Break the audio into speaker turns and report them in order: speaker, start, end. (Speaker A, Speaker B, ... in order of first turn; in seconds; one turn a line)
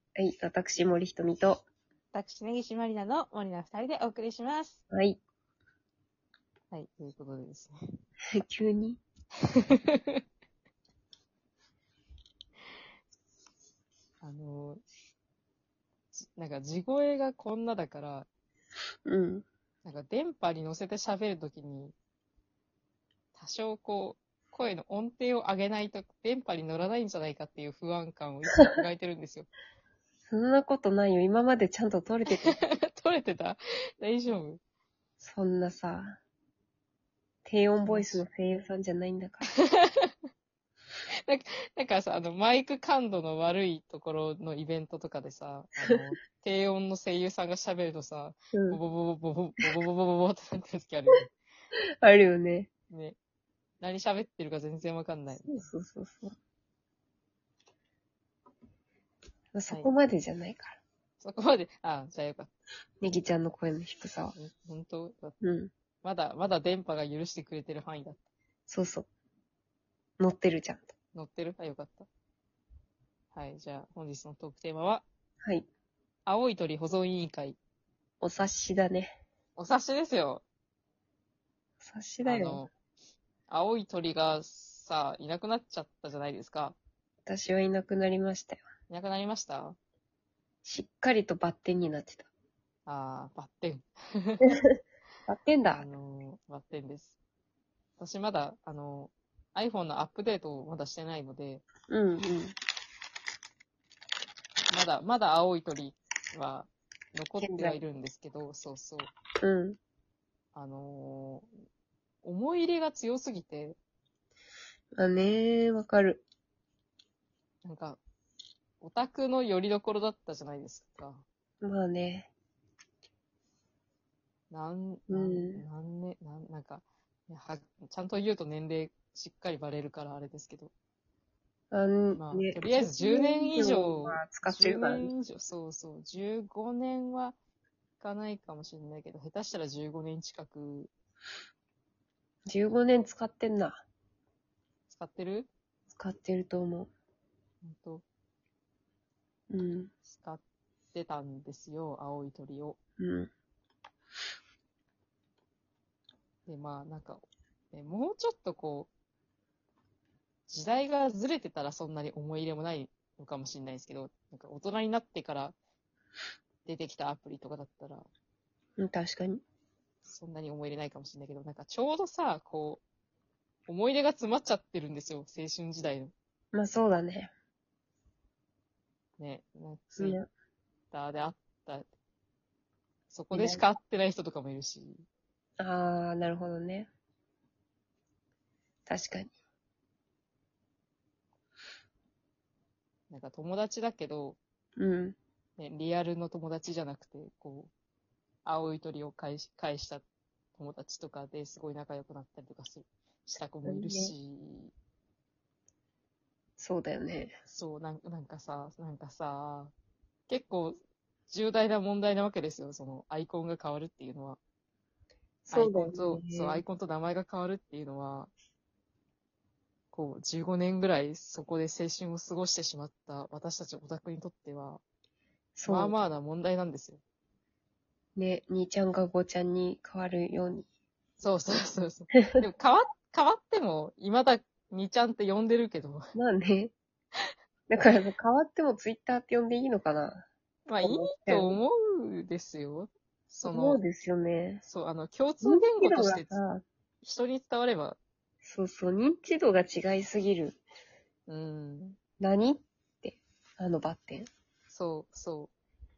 Speaker A: 0.2-1.6
Speaker B: 2.1-4.8
Speaker A: 4.9-5.2
Speaker B: 6.7-7.8
Speaker A: 8.4-9.0
Speaker B: 14.2-14.8
Speaker B: 16.1-18.3
Speaker A: 19.1-19.5
Speaker B: 19.8-21.9
Speaker B: 23.4-29.5
Speaker A: 30.3-32.6
Speaker B: 32.4-34.6
Speaker A: 35.2-36.2
Speaker A: 37.5-39.5
Speaker B: 37.9-38.2
Speaker B: 39.7-40.1
Speaker B: 41.3-51.3
Speaker A: 48.5-48.8
Speaker A: 52.0-52.7
Speaker B: 52.9-53.2
Speaker B: 53.8-55.7
Speaker A: 55.5-56.4
Speaker A: 59.5-60.8
Speaker B: 61.2-62.5
Speaker A: 63.0-64.4
Speaker B: 64.4-65.4
Speaker A: 65.4-65.7
Speaker B: 66.0-68.2
Speaker A: 68.7-69.1
Speaker A: 70.2-70.9
Speaker B: 71.2-72.1
Speaker B: 73.3-75.1
Speaker B: 76.3-77.6
Speaker A: 78.2-79.2
Speaker B: 79.6-80.4
Speaker A: 81.8-82.7
Speaker B: 82.2-82.7
Speaker B: 83.5-86.8
Speaker A: 87.2-88.6
Speaker B: 88.9-89.8
Speaker A: 90.6-92.3
Speaker B: 92.9-94.6
Speaker A: 95.3-95.8
Speaker B: 95.7-97.2
Speaker B: 98.0-101.6
Speaker A: 101.9-102.5
Speaker B: 104.7-109.1
Speaker A: 107.4-107.8
Speaker A: 109.4-109.8
Speaker B: 110.5-111.5
Speaker B: 112.2-113.8
Speaker A: 115.0-116.2
Speaker B: 117.6-118.0
Speaker B: 118.8-121.2
Speaker A: 121.6-122.3
Speaker B: 124.5-130.7
Speaker A: 125.1-125.6
Speaker A: 131.7-135.1
Speaker B: 132.2-137.4
Speaker B: 138.0-140.9
Speaker A: 142.5-143.8
Speaker B: 144.9-145.5
Speaker A: 145.9-146.9
Speaker B: 147.6-148.0
Speaker A: 149.5-149.9
Speaker B: 150.1-150.4
Speaker B: 150.9-152.8
Speaker A: 153.0-153.3
Speaker B: 156.5-158.9
Speaker B: 160.5-165.6
Speaker B: 166.7-168.1
Speaker A: 168.8-169.4
Speaker B: 170.0-172.8
Speaker B: 173.7-176.1
Speaker A: 176.5-177.3
Speaker B: 179.2-180.2
Speaker A: 180.0-180.3
Speaker B: 180.9-181.9
Speaker B: 183.1-185.1
Speaker A: 183.3-183.6
Speaker A: 185.6-186.9
Speaker A: 188.9-189.3
Speaker B: 193.1-194.4
Speaker A: 194.8-195.2
Speaker B: 195.6-197.7
Speaker B: 198.4-200.1
Speaker B: 200.6-204.7
Speaker A: 203.7-204.1
Speaker A: 206.6-207.3
Speaker B: 207.5-209.7
Speaker B: 210.3-210.8
Speaker B: 211.3-214.4
Speaker B: 215.5-218.3
Speaker A: 215.5-216.6
Speaker B: 219.9-224.8
Speaker A: 225.6-225.9
Speaker B: 225.7-227.0
Speaker A: 228.2-230.7
Speaker B: 231.2-236.1
Speaker A: 236.2-236.7
Speaker A: 237.7-240.3
Speaker B: 240.7-243.8
Speaker A: 240.8-241.6
Speaker A: 243.4-244.6
Speaker B: 244.6-246.4
Speaker A: 245.4-246.7
Speaker B: 247.0-248.0
Speaker A: 248.4-250.6
Speaker B: 251.3-252.0
Speaker A: 252.2-254.3
Speaker B: 254.7-255.5